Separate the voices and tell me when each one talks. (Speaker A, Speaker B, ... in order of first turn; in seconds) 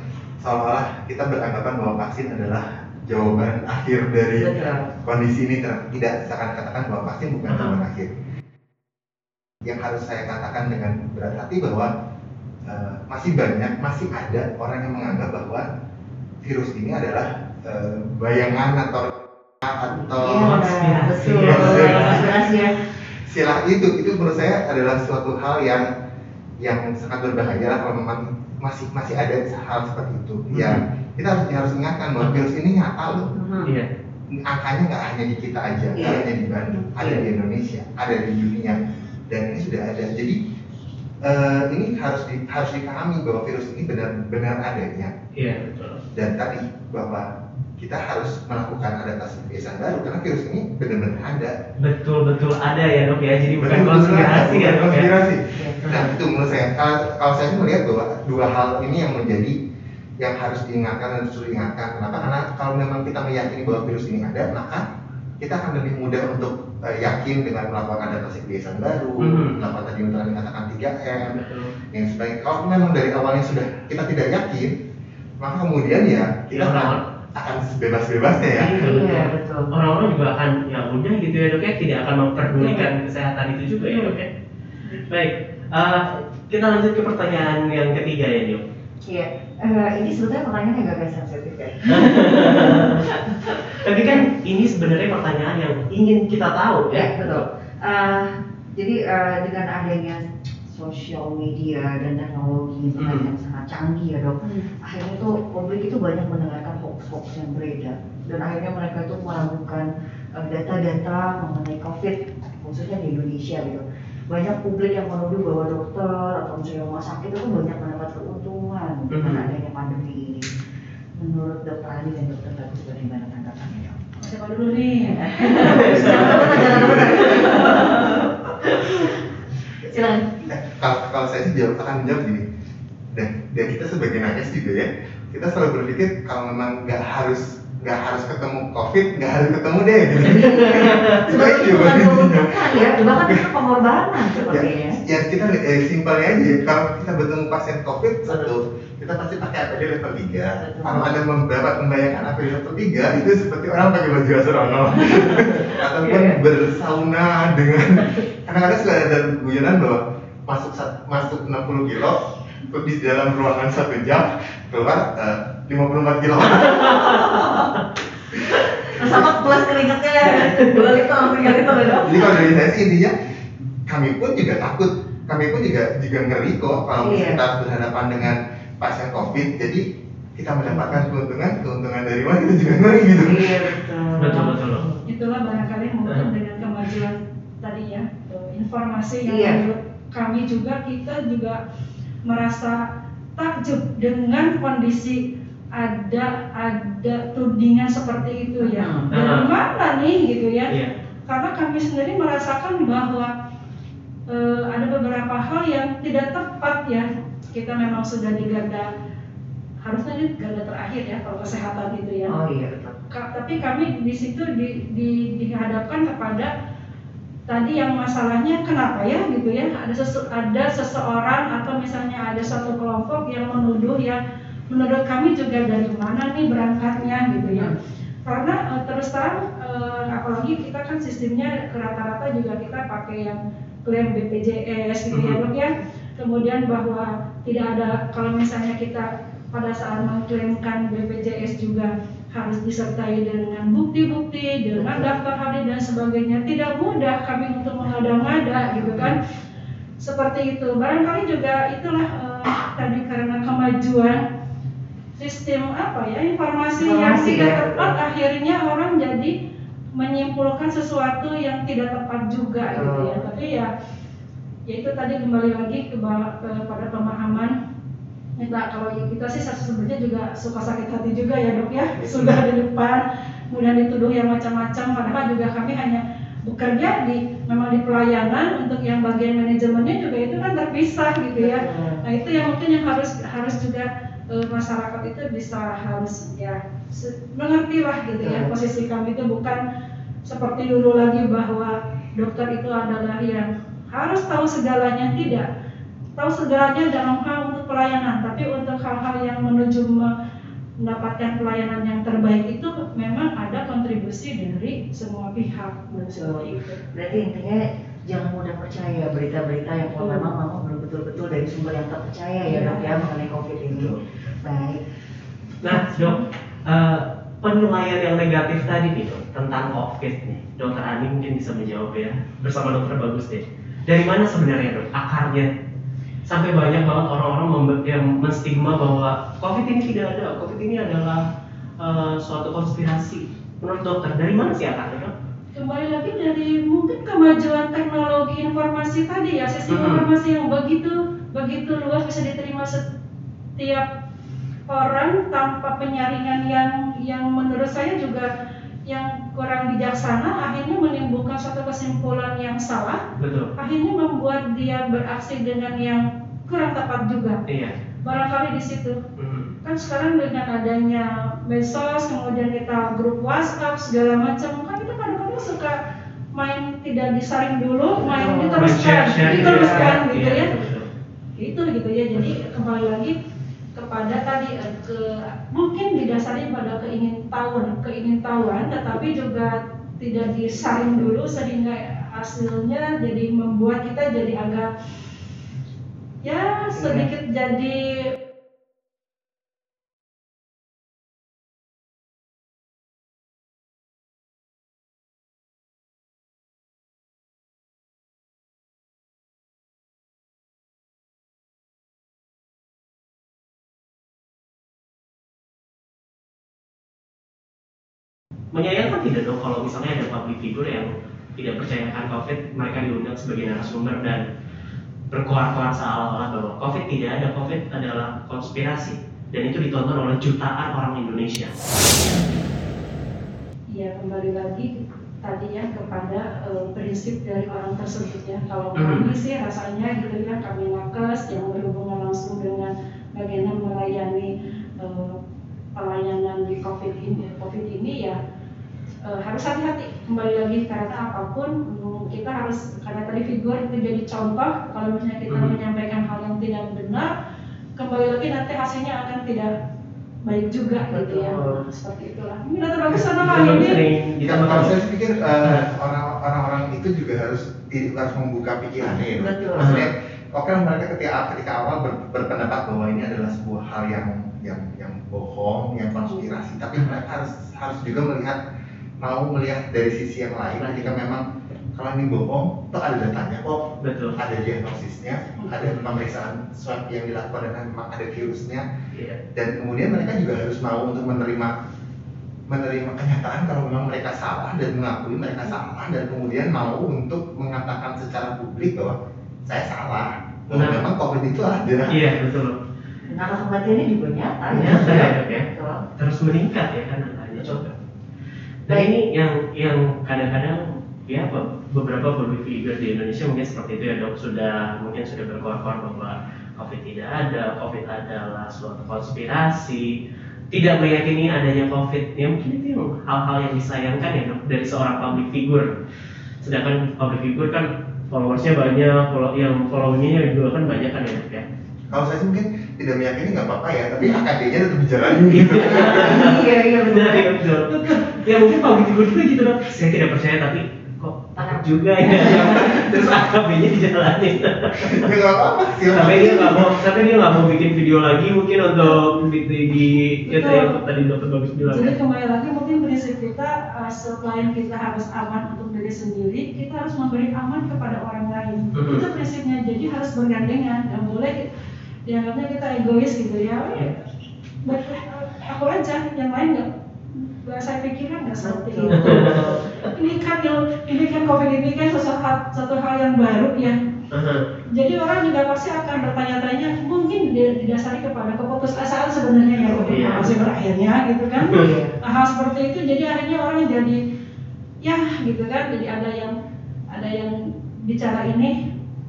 Speaker A: 0.4-8.1, 9.6-11.9, 12.7-15.7, 16.4-20.6, 21.4-25.9, 26.6-33.3, 34.4-40.4, 41.2-45.1, 46.1-51.6, 53.6-59.6, 60.2-64.9, 65.4-71.4, 71.9-74.7, 75.4-78.8, 125.7-127.5, 130.5-132.4, 133.1-143.5, 144.4-167.6, 169.0-169.5, 172.0-173.2, 173.9-179.8, 180.4-183.9, 272.0-272.3, 313.7-314.0, 454.2-468.4, 469.0-478.6, 479.4-481.5, 482.5-492.1, 494.5-495.1, 521.9-526.3, 534.8-536.9
Speaker B: 4.4-4.9, 20.0-22.8, 33.3-33.8, 35.9-36.3, 36.9-37.3, 55.5-56.1, 78.6-79.7, 82.6-82.9, 89.1-93.1, 96.9-120.5, 121.2-124.0, 125.0-129.2, 129.9-130.5, 140.2-145.0, 150.6-151.2, 156.0-156.4, 167.0-167.7, 168.6-172.5, 177.0-177.4, 180.7-181.1, 182.7-185.0, 189.2-189.6, 198.6-199.1, 212.3-212.9, 244.7-245.2, 248.8-249.2, 256.8-257.9, 262.6-263.3, 281.4-282.0, 288.2-288.6, 306.1-314.8, 368.0-370.0, 386.7-387.1, 450.9-451.7, 459.2-459.7, 493.1-495.8, 525.7-527.4, 531.4-532.9, 558.4-559.7, 571.6-571.9
Speaker C: 7.5-7.8, 20.2-22.5, 45.4-46.0, 51.8-55.1, 69.2-69.7, 71.2-71.7, 76.5-77.0, 78.6-84.3, 85.1-88.6, 91.8-97.4, 103.0-103.3, 119.1-119.5, 125.6-128.0, 140.4-141.2, 170.2-170.9, 184.2-184.8, 199.1-199.5, 235.1-235.4, 315.6-325.5, 326.3-331.3, 331.8-335.1, 339.7-340.1, 353.2-353.5, 357.5-357.7, 359.2-359.5, 368.6-370.9, 408.5-414.3, 415.1-421.5, 428.8-429.1, 445.3-445.5, 452.9-454.8, 459.6-459.9, 470.6-470.9, 473.8-474.2, 478.9-479.2, 490.5-490.8, 491.9-492.6, 494.5-497.8, 498.7-510.0, 510.5-515.7, 516.4-521.5, 525.2-535.1, 535.9-541.9, 548.7-549.1, 558.9-559.9, 564.1-564.5, 569.9-570.4, 571.4-571.8
Speaker D: 124.2-126.2, 185.1-191.6, 192.3-192.8, 193.4-195.2, 195.7-200.7, 201.3-203.3, 204.3-208.9, 209.8-212.3, 213.1-216.5, 217.5-227.8, 228.3-249.2, 250.0-254.2, 255.2-259.3, 259.9-263.7, 264.7-267.6, 268.4-289.6, 290.2-295.5, 296.2-300.1, 300.8-306.8, 310.0-310.3, 312.5-313.0, 335.6-342.8, 343.6-343.9, 344.7-348.3, 348.9-353.0, 353.6-357.4, 358.0-359.0, 359.6-365.8, 366.4-370.5, 371.4-373.2, 373.8-384.7, 386.2-388.1, 423.7-435.2, 435.8-438.2, 439.0-447.1, 447.8-449.5, 450.3-453.8, 527.7-528.0, 540.3-540.8, 541.6-551.5, 552.1-554.0, 554.6-563.8, 564.7-574.0, 574.8-576.4, 576.9-578.6